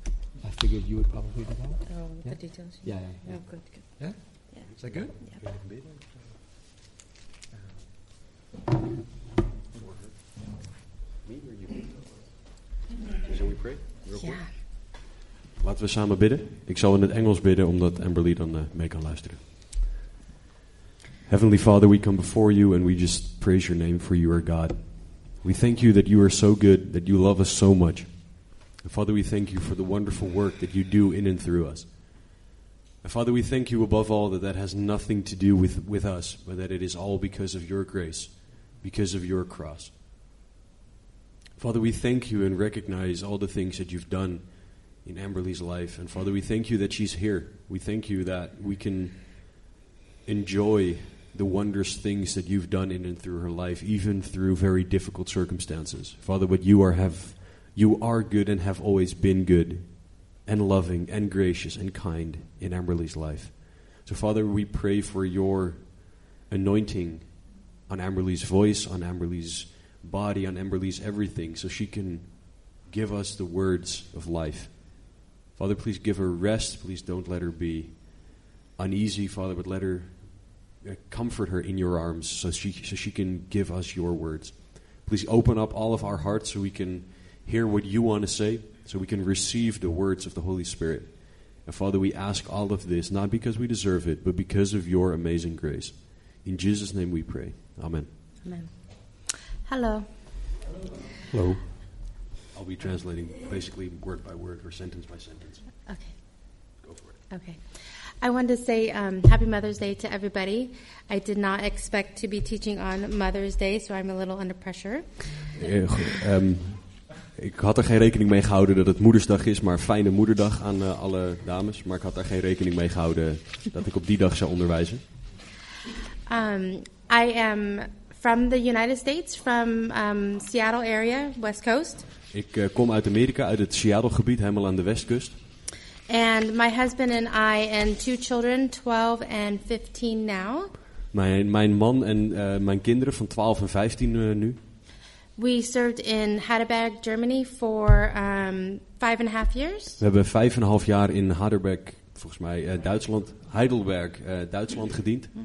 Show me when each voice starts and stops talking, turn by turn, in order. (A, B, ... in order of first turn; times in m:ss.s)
0:00.4-0:03.3 A
0:01.9-0:03.7 B
0:04.8-0:05.1 A
0:11.2-0:11.9 C
0:13.2-0:14.4 C
0:14.2-0:14.4 B
0:15.6-0:19.4 C
0:21.3-0:31.9 C
0:33.0-0:39.9 C
0:41.6-0:49.4 C
0:50.3-1:07.3 C
1:07.9-1:12.3 C
1:12.8-1:20.3 C
1:20.8-1:38.1 C
1:38.4-1:38.7 B
1:39.7-1:40.1 B
1:41.3-1:41.6 C
1:42.5-1:45.6 C
1:45.9-1:46.1 B
1:46.8-1:47.1 C
1:47.3-1:47.6 B
1:48.2-1:55.1 B
1:55.6-2:05.0 C
2:06.3-2:12.0 B
2:12.3-2:15.4 C
2:16.1-2:20.7 B
2:21.1-2:24.6 C
2:25.4-2:30.0 B
2:30.0-2:35.3 C